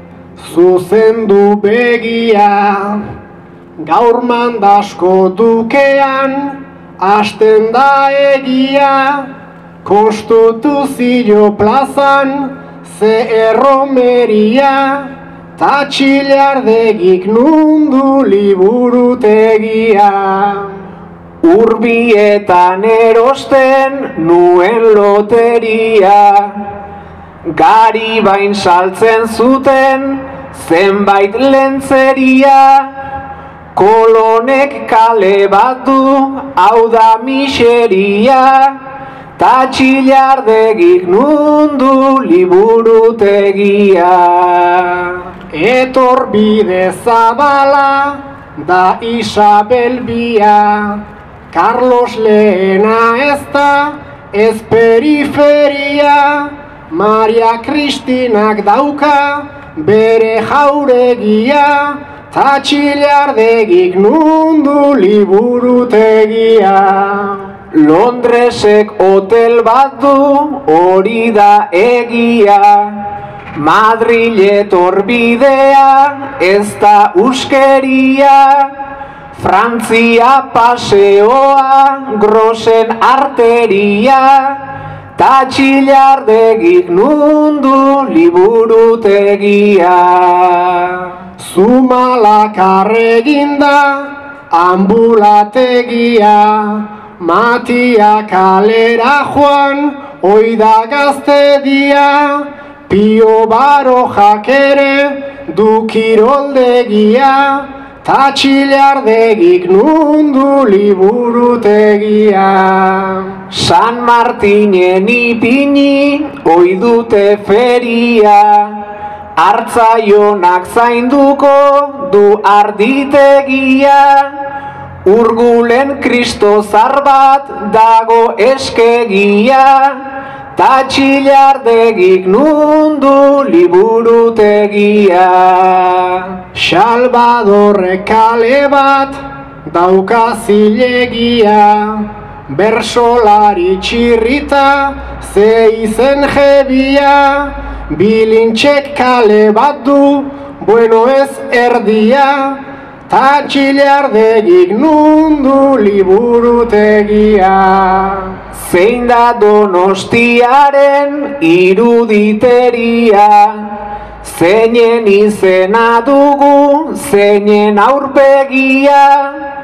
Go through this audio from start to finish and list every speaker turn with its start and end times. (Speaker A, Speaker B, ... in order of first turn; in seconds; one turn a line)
Speaker A: 0.4-3.0
Speaker A: 3.8-9.3
Speaker A: 9.8-20.8
Speaker B: 21.4-26.8
Speaker B: 27.5-33.1
Speaker B: 33.7-38.8
Speaker B: 39.4-45.3
Speaker A: 45.5-67.5
Speaker B: 67.7-78.8
Speaker B: 79.3-84.7
Speaker B: 85.2-91.1
Speaker A: 91.4-113.4
Speaker B: 113.5-118.9
Speaker B: 119.4-124.4
Speaker B: 125.1-136.4
Speaker A: 136.5-158.4
Speaker B: 158.5-169.5